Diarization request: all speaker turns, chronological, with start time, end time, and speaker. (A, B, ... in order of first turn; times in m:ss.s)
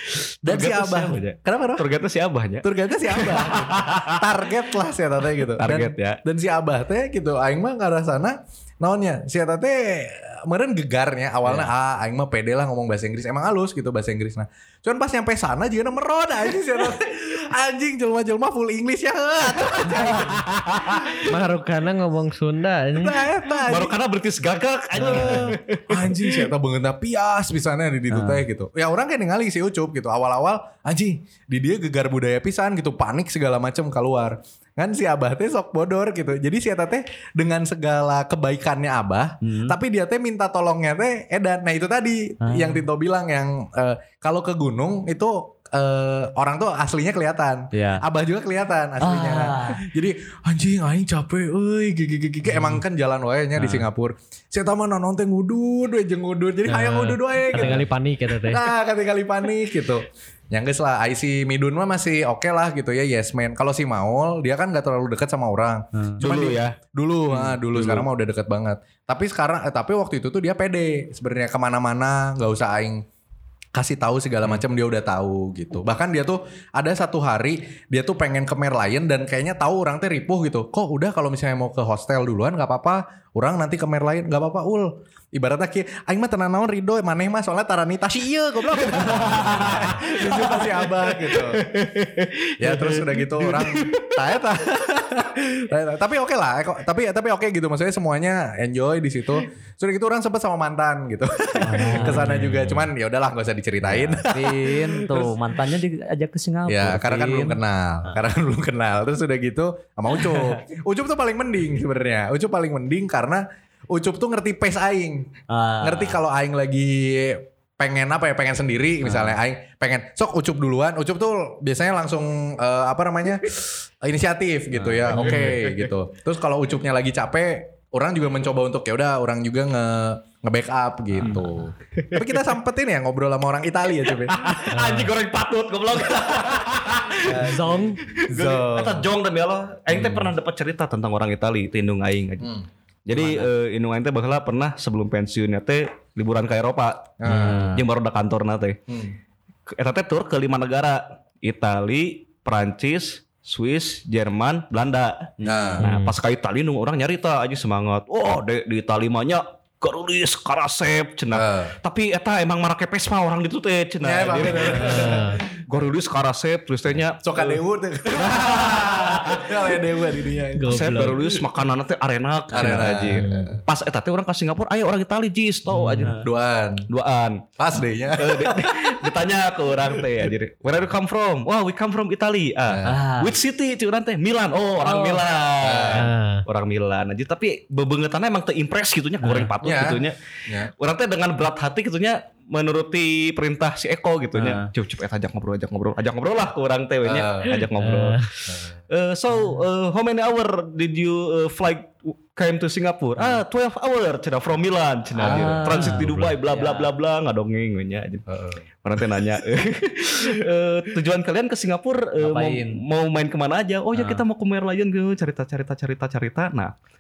0:00.4-0:01.9 A
0:00.4-0:04.3 B
0:02.6-0:21.2 A
0:05.6-0:06.2 B
0:20.4-0:21.0 B
0:21.2-0:23.2 C
0:23.0-0:23.9 A
0:23.6-0:26.5 B
0:25.0-0:25.5 C
0:25.0-1:13.0 A
0:28.1-0:28.4 D
0:39.4-0:39.8 D
0:42.4-0:42.8 D
0:47.7-0:48.0 D
0:49.0-0:49.9 D
0:53.6-0:53.8 D
0:56.7-0:58.7 C
1:05.9-1:06.2 D
1:06.2-1:06.8 B
1:07.3-1:08.1 B
1:13.7-1:31.7 A
1:28.8-1:34.2 B
1:32.6-1:45.3 A
1:41.6-1:42.3 D
1:41.9-1:42.9 C
1:43.9-1:48.1 D
1:46.7-1:55.3 A
1:50.2-1:50.5 D
1:55.5-1:56.2 D
1:55.8-2:14.4 A
1:59.0-1:59.4 D
2:04.7-2:05.1 D
2:05.1-2:05.9 B
2:05.1-2:05.6 C
2:12.0-2:12.4 B
2:14.1-2:22.5 B
2:14.7-2:15.1 C
2:17.2-2:19.1 A
2:17.4-2:18.0 C
2:19.9-2:20.3 A
2:22.4-2:22.7 A
2:23.1-2:28.8 B
2:23.2-2:23.5 D
2:27.2-2:27.6 A
2:27.3-2:27.8 D
2:28.9-2:29.2 A
2:29.7-2:35.3 B
2:35.4-2:35.8 D
2:35.4-2:35.8 A
2:35.8-2:36.2 C
2:35.8-2:47.6 B
2:41.3-2:41.7 A
2:44.0-2:45.4 A
2:44.7-2:45.4 C
2:47.2-2:51.3 A
2:48.1-2:49.6 B
2:50.5-2:51.2 C
2:50.7-2:56.2 B
2:52.5-2:53.6 A
2:53.2-2:53.6 C
2:55.7-2:56.2 C
2:56.0-2:56.3 D
2:56.2-2:56.9 A
2:56.9-2:57.4 B
2:57.6-2:59.1 A
2:58.2-3:10.2 B
3:02.7-3:03.0 A
3:02.8-3:03.4 D
3:04.8-3:05.2 D
3:05.6-3:06.1 A
3:06.0-3:06.4 C
3:09.2-3:09.5 D
3:09.6-3:10.7 A
3:10.7-3:18.2 B
3:14.4-3:14.7 D
3:17.0-3:17.7 A
3:17.7-3:18.6 C
3:18.5-3:18.7 A
3:18.9-3:28.2 B
3:25.2-3:26.9 D
3:25.2-3:25.6 A
3:25.8-3:26.4 C
3:28.3-3:28.6 A
3:28.8-3:36.7 B
3:32.2-3:32.8 D
3:33.9-3:34.2 D